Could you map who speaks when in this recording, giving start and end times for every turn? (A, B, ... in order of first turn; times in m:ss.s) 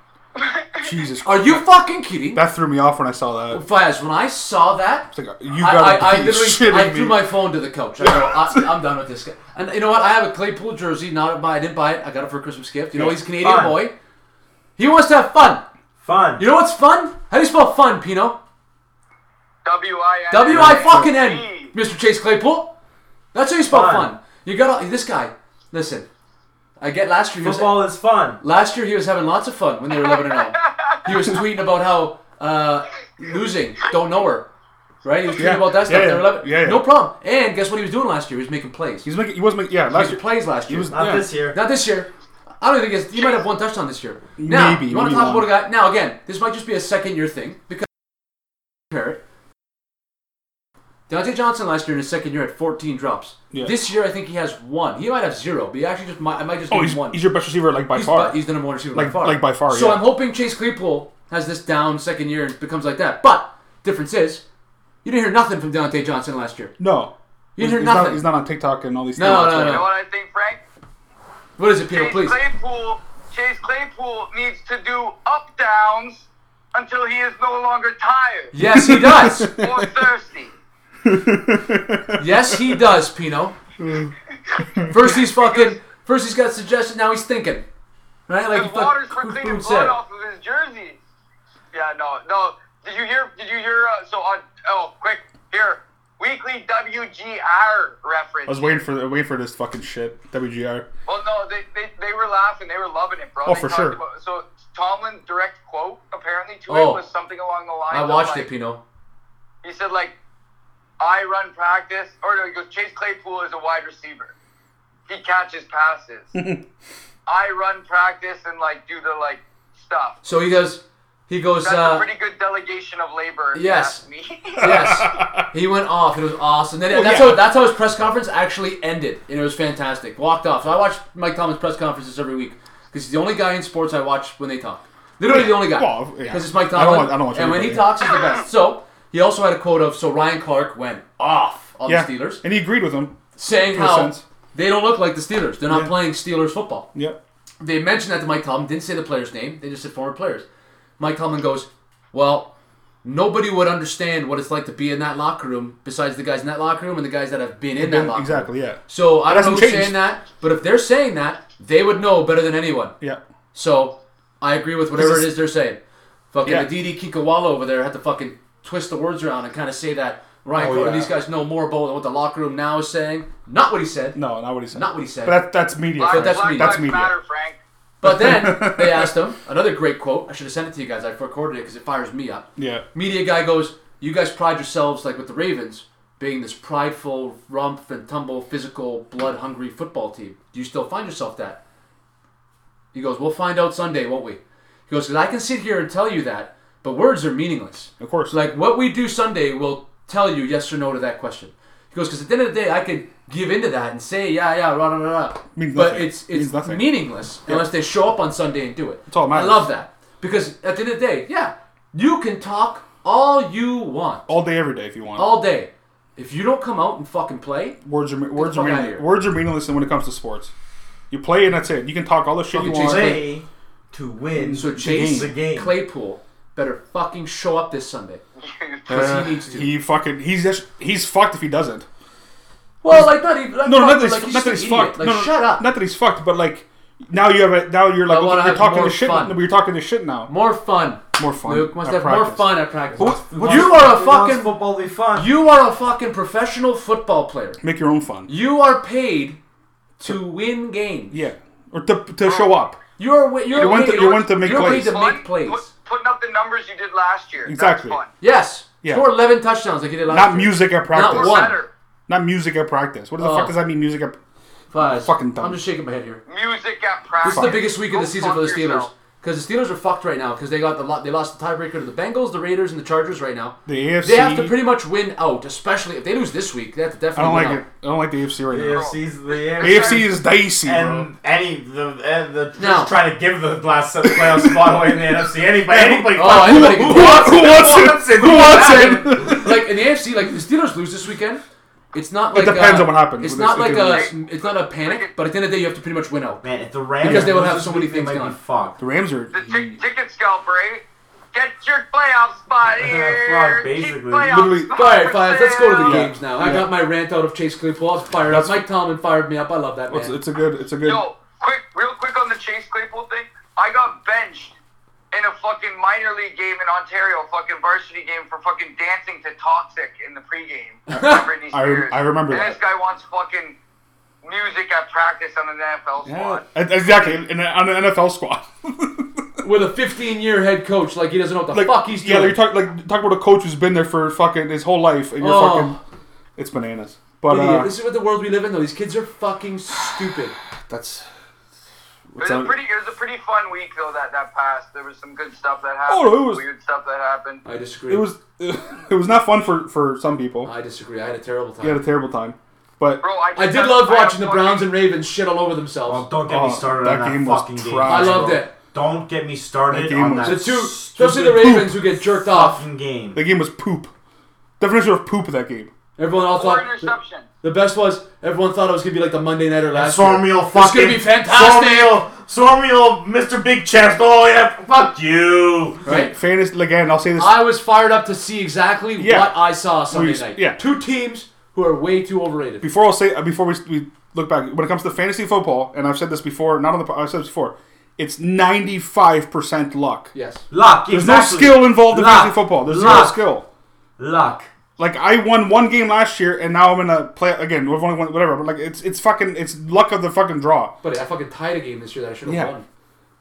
0:00.3-0:00.9 A
0:00.8-0:01.6 B
0:01.2-0:02.4 C
0:02.3-0:03.6 B
0:03.5-0:13.9 C
0:05.1-0:07.2 B
0:08.0-0:08.7 B
0:13.4-0:13.8 D
0:14.8-0:15.6 C
0:16.0-0:16.4 D
0:16.4-0:18.4 C
0:19.6-0:21.7 A
0:20.3-0:22.7 C
0:20.5-0:21.0 D
0:23.3-0:26.1 C
0:23.7-0:24.1 D
0:26.8-0:27.8 C
0:27.4-0:28.4 D
0:28.4-0:34.5 C
0:35.0-0:39.1 C
0:35.4-0:36.9 B
0:39.0-0:41.3 B
0:39.9-0:42.1 C
0:40.9-0:41.6 D
0:42.6-0:47.9 C
0:44.4-0:45.5 B
0:48.9-0:49.2 C
0:51.1-0:57.2 C
0:56.7-0:58.4 B
0:57.9-1:04.4 C
0:58.9-1:00.0 B
1:05.0-1:06.8 C
1:06.8-1:09.9 B
1:07.6-1:08.2 C
1:09.2-1:09.9 C
1:09.6-1:10.6 A
1:11.6-1:12.4 C
1:11.9-1:18.5 A
1:18.5-1:19.5 C
1:18.6-1:19.8 B
1:19.4-1:20.5 A
1:21.0-1:22.8 B
1:22.2-1:23.6 C
1:23.8-1:24.1 B
1:24.5-1:25.8 A
1:24.9-1:27.6 C
1:28.3-1:30.0 C
1:28.5-1:31.0 A
1:31.7-1:38.8 A
1:38.5-1:40.8 B
1:41.1-1:48.5 A
1:43.4-1:44.0 B
1:46.7-1:47.0 C
1:47.9-1:48.8 C
1:49.6-1:50.1 A
1:51.0-1:54.3 A
1:55.1-1:56.4 A
1:56.3-1:56.6 B
1:57.3-2:00.2 A
2:00.2-2:02.0 C
2:01.6-2:04.8 A
2:03.5-2:04.0 C
2:04.6-2:22.4 C
2:04.6-2:05.4 B
2:06.9-2:07.5 B
2:15.2-2:17.9 B
2:21.8-2:24.2 B
2:23.4-2:26.9 C
2:25.7-2:25.9 B
2:27.6-2:30.4 C
2:31.0-2:32.5 C
2:33.0-2:42.9 C
2:37.8-2:40.0 B
2:43.5-2:45.8 C
2:44.9-2:45.4 B
2:46.3-2:54.2 C
2:46.4-2:46.7 B
2:50.6-2:51.1 B
2:54.1-2:57.1 B
2:54.7-2:55.4 C
2:56.0-2:57.6 A
2:56.1-2:56.9 C
2:58.0-2:59.1 B
2:58.0-3:11.6 C
3:02.6-3:02.8 B
3:12.9-3:34.3 C
3:18.0-3:18.3 B
3:25.5-3:26.9 B
3:29.1-3:29.6 B
3:34.3-3:35.3 B
3:35.2-3:37.8 C
3:37.8-3:40.5 B
3:38.3-3:39.0 C
3:41.1-3:43.2 B
3:42.5-3:43.2 C
3:42.6-3:45.7 D
3:44.4-3:45.3 B
3:44.5-3:48.2 C
3:48.4-3:48.9 A
3:48.9-3:49.7 C
3:48.9-3:51.8 B
3:52.8-3:55.6 C
3:52.9-4:00.3 B
3:58.1-3:59.4 C
4:00.3-4:04.5 C
4:01.1-4:03.9 B
4:02.9-4:05.3 D
4:05.1-4:07.6 C
4:07.6-4:08.3 B
4:08.3-4:09.4 C
4:10.0-4:11.2 C
4:11.1-4:12.8 B
4:12.2-4:12.5 A
4:13.0-4:15.7 C
4:13.5-4:18.1 A
4:13.5-4:15.1 B
4:17.4-4:18.0 B
4:18.2-4:21.6 C
4:20.1-4:21.5 B
4:21.1-4:21.7 A
4:22.1-4:24.2 B
4:23.2-4:23.5 C
4:24.7-4:26.2 C
4:24.8-4:25.6 B
4:26.3-4:28.9 A
4:27.2-4:37.6 C
4:27.2-4:27.6 B
4:33.6-4:34.5 B
4:37.1-4:38.9 B
4:38.5-4:49.3 D
4:38.6-4:40.0 A
4:39.6-4:41.1 B
4:42.6-4:42.9 C
4:44.0-4:49.6 B
4:46.1-4:51.4 C
4:51.9-4:56.4 C
4:52.3-4:54.1 B
4:53.7-4:55.1 A
4:56.4-4:58.8 D
4:57.0-4:58.4 C
4:57.0-4:57.4 B
4:58.8-4:59.8 B
4:59.3-5:06.0 A
5:02.7-5:04.4 D
5:04.2-5:04.7 B
5:04.7-5:10.2 C
5:05.8-5:06.7 B
5:08.3-5:08.6 B
5:09.9-5:11.0 B
5:10.8-5:14.5 A
5:15.1-5:23.6 A
5:20.9-5:21.2 C
5:20.9-5:22.6 B
5:24.2-5:26.4 A
5:26.0-5:29.2 B
5:29.4-5:32.4 C
5:31.5-5:35.8 B
5:35.2-5:35.8 C
5:36.4-5:37.7 B
5:37.3-5:40.4 C
5:40.7-5:41.1 B
5:42.1-5:42.5 B
5:42.2-5:47.4 A
5:45.9-5:46.4 B
5:47.4-5:48.1 C
5:47.9-5:50.5 B
5:50.4-5:51.8 C
5:51.6-5:53.0 B
5:53.0-5:54.7 A
5:53.3-5:56.0 C
5:55.8-6:01.6 D
5:56.2-5:58.4 B
5:57.8-5:58.5 C
5:59.7-6:00.5 B
6:00.2-6:02.6 C
6:01.2-6:01.8 B
6:02.2-6:03.2 D
6:03.1-6:03.9 B
6:04.6-6:05.7 B
6:06.0-6:12.0 C
6:06.3-6:07.3 A
6:09.7-6:15.8 D
6:15.8-6:16.1 C
6:15.8-6:17.4 B
6:17.2-6:22.7 C
6:19.0-6:20.6 B
6:22.6-6:30.1 B
6:30.1-6:30.4 C
6:30.5-6:33.2 D
6:30.9-6:33.4 B
6:34.0-6:34.5 D
6:34.8-6:40.8 B
6:40.8-6:42.6 C
6:42.2-6:42.5 B